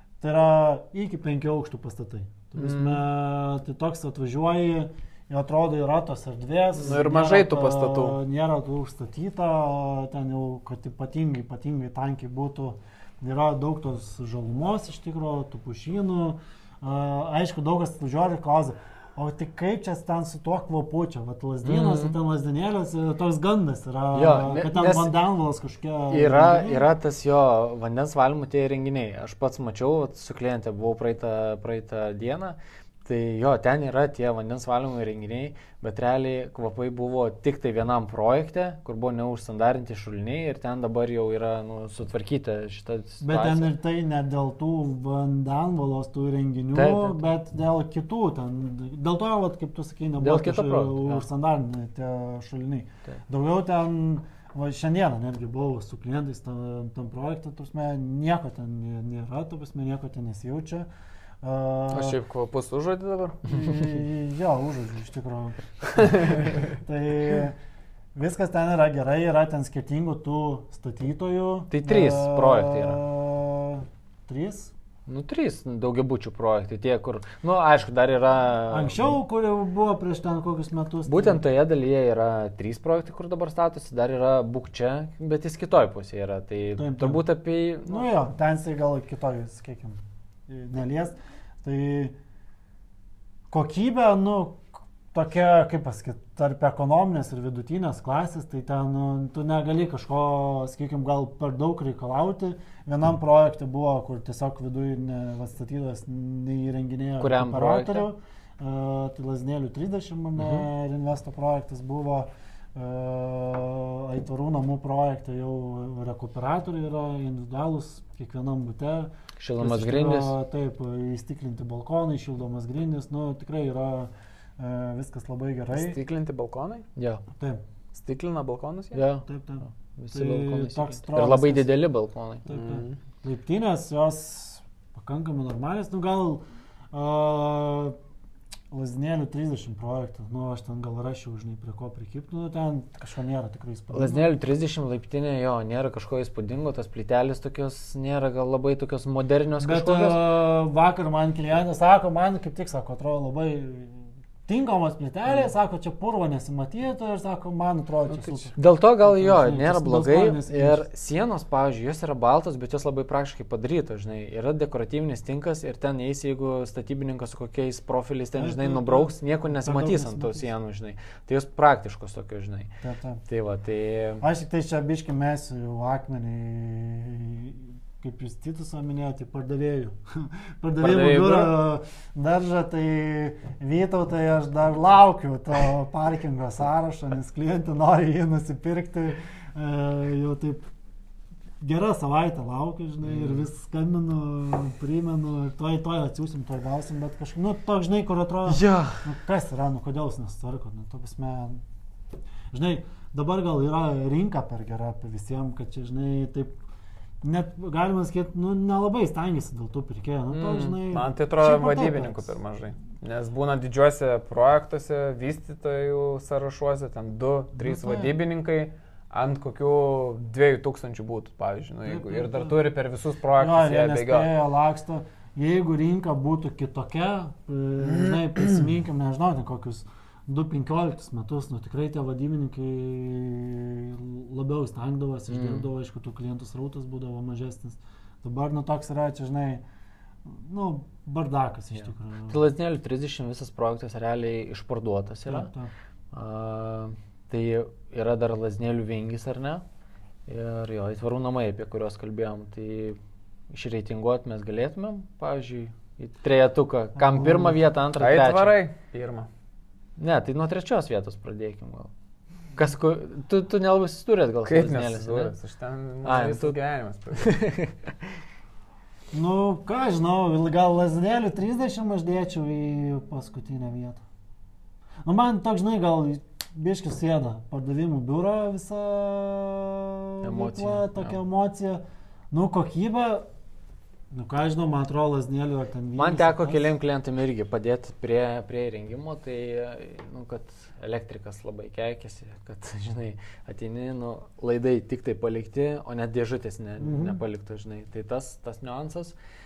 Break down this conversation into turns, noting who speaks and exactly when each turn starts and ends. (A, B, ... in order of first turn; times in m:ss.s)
0:00.2-0:26.8 A
0:02.6-0:03.0 B
0:06.8-0:08.2 B
0:21.6-0:22.2 C
0:24.1-0:25.2 C
0:26.1-0:43.7 C
0:43.2-1:00.9 A
0:46.7-0:47.2 C
0:50.2-0:51.2 C
1:01.4-1:02.2 A
1:01.9-1:03.5 B
1:03.5-1:07.6 A
1:06.0-1:06.6 B
1:08.2-1:14.7 A
1:11.7-1:13.0 C
1:15.1-1:19.2 C
1:18.7-1:21.4 A
1:21.1-1:28.1 C
1:26.8-1:27.2 A
1:27.8-1:32.2 A
1:33.5-2:06.0 A
1:47.2-1:48.1 C
1:50.4-1:50.6 C
1:59.4-2:00.4 C
2:05.7-2:06.9 B
2:07.0-2:07.2 C
2:07.9-2:09.1 B
2:08.9-2:12.4 C
2:09.2-2:11.7 A
2:12.5-2:18.0 A
2:12.5-2:13.0 B
2:18.7-2:24.3 A
2:23.9-2:30.2 C
2:29.6-2:40.9 A
2:38.1-2:38.5 B
2:38.6-2:52.7 C
2:48.3-2:50.5 A
2:52.8-2:53.2 A
2:53.3-2:54.2 C
2:54.2-3:10.7 A
3:00.8-3:01.6 C
3:11.6-3:21.6 A
3:13.0-3:13.5 C
3:18.5-3:19.1 C
3:22.5-3:26.6 A
3:27.2-3:32.4 A
3:30.4-3:44.3 B
3:37.6-3:38.1 A
3:41.8-3:42.6 A
3:43.4-3:59.6 A
3:47.8-3:48.6 B
3:55.3-3:55.7 C
4:00.2-4:02.4 A
4:01.8-4:05.5 C
4:05.2-4:05.7 A
4:06.1-4:09.6 C
4:10.3-4:13.0 C
4:13.5-4:18.6 C
4:17.0-4:17.5 A
4:18.0-4:19.3 B
4:20.0-4:21.9 C
4:22.6-4:25.3 C
4:24.4-4:27.4 B
4:26.0-4:26.6 C
4:27.2-4:28.2 C
4:29.1-4:34.0 A
4:35.1-4:43.3 A
4:40.2-4:41.2 C
4:44.1-4:46.7 A
4:46.0-4:59.2 C
4:56.8-4:57.2 A